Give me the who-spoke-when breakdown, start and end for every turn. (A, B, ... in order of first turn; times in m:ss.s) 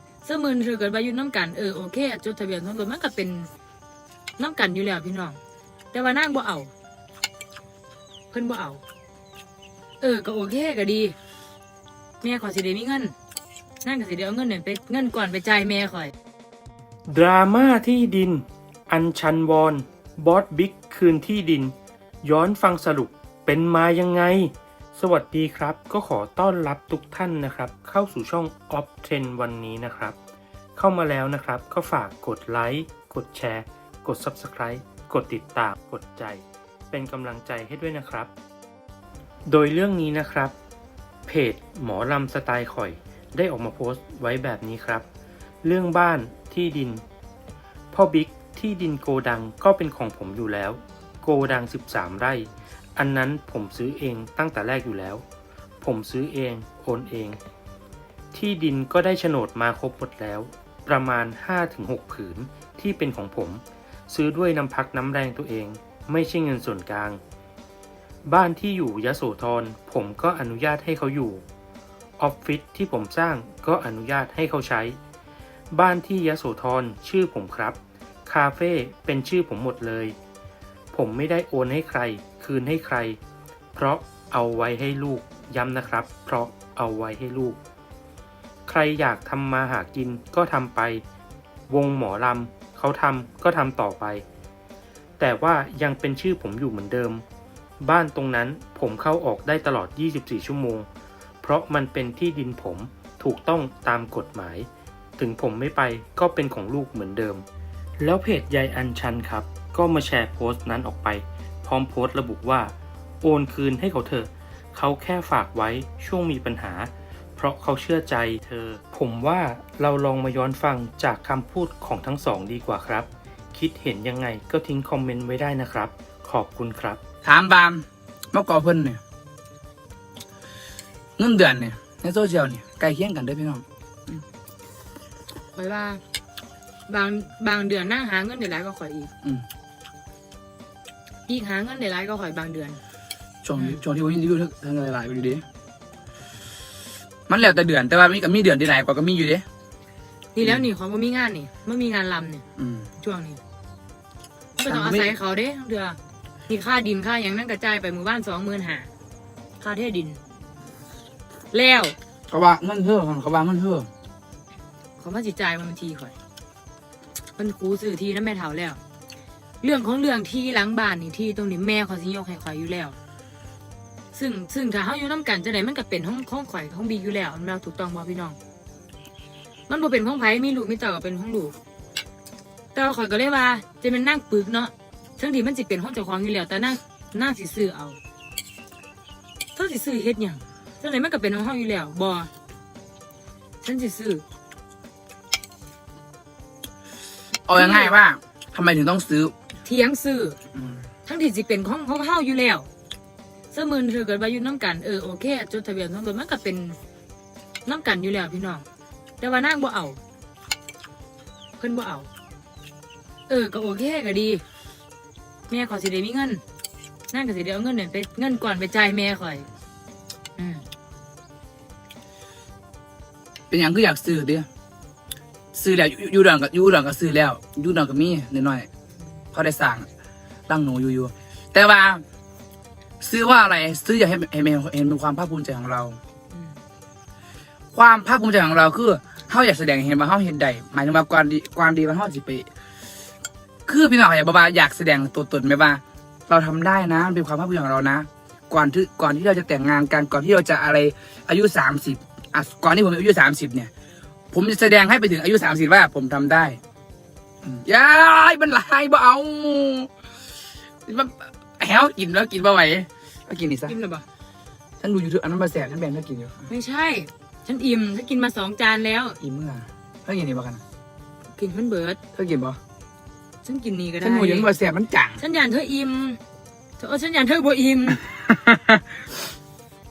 0:00.2-0:03.5 A
0:04.4-0:05.4 A
0:05.9-0:06.7 A
0:08.3-0:08.8 A
0:10.0-0:11.2 A
0:12.2-0:13.1 A
0:13.8-0:16.1 A
0:17.1-0:30.2 B
0:30.8-0:38.3 B
0:39.5-0:40.5 B
0:41.3-0:45.0 B
0:45.6-0:47.0 B
0:47.9-0:55.2 B
0:55.8-0:57.4 B
0:58.3-1:07.2 B
1:08.3-1:11.4 B
1:12.2-1:15.0 B
1:15.7-1:20.2 B
1:20.9-1:23.2 B
1:23.7-1:27.6 B
1:28.7-1:31.0 B
1:31.7-1:34.2 B
1:35.2-1:37.2 B
1:37.8-1:40.9 B
1:41.4-1:47.4 B
1:48.0-2:07.0 B
2:07.2-2:09.0 C
2:11.2-2:14.2 C
2:15.6-2:16.0 A
2:16.9-2:19.1 A
2:21.3-2:22.8 A
2:23.4-2:25.4 C
2:23.6-2:23.8 A
2:27.3-2:29.4 C
2:30.3-2:32.4 A
2:32.6-2:32.9 C
2:33.0-2:33.4 A
2:34.6-2:36.0 A
2:34.7-2:35.1 C
2:36.5-2:38.9 A
2:39.6-2:40.2 A
2:41.5-2:42.0 A
2:42.3-2:43.9 C
2:45.0-2:46.2 A
2:47.4-2:48.8 A
2:49.6-2:53.0 A
2:54.1-2:58.4 A
2:59.7-3:01.6 A
3:02.7-3:08.0 A
3:09.6-3:12.3 A
3:13.6-3:14.2 A
3:17.5-3:19.3 C
3:17.6-3:17.9 A
3:19.6-3:20.4 A
3:20.5-3:20.8 C
3:21.1-3:22.7 A
3:23.5-3:26.8 A
3:27.7-3:28.6 A
3:29.2-3:30.0 A
3:31.6-3:32.1 A
3:33.3-3:34.4 A
3:35.5-3:36.4 A
3:37.1-3:39.5 A
3:40.4-3:40.7 A
3:43.5-3:44.5 C
3:45.5-3:48.7 C
3:49.3-3:49.9 C
3:50.5-3:52.0 C
3:53.0-3:56.0 C
3:56.3-3:56.6 A
3:57.7-4:02.5 C
4:03.7-4:13.7 C
4:14.3-4:16.6 C
4:17.4-4:19.9 C
4:20.9-4:23.8 C
4:23.7-4:24.0 A
4:24.8-4:26.5 C
4:26.5-4:29.2 A
4:29.2-4:30.6 C
4:31.4-4:32.0 A
4:32.2-4:32.6 C
4:33.4-4:34.5 A
4:34.0-4:35.2 C
4:35.2-4:36.2 A
4:36.8-4:38.0 A
4:38.3-4:38.8 C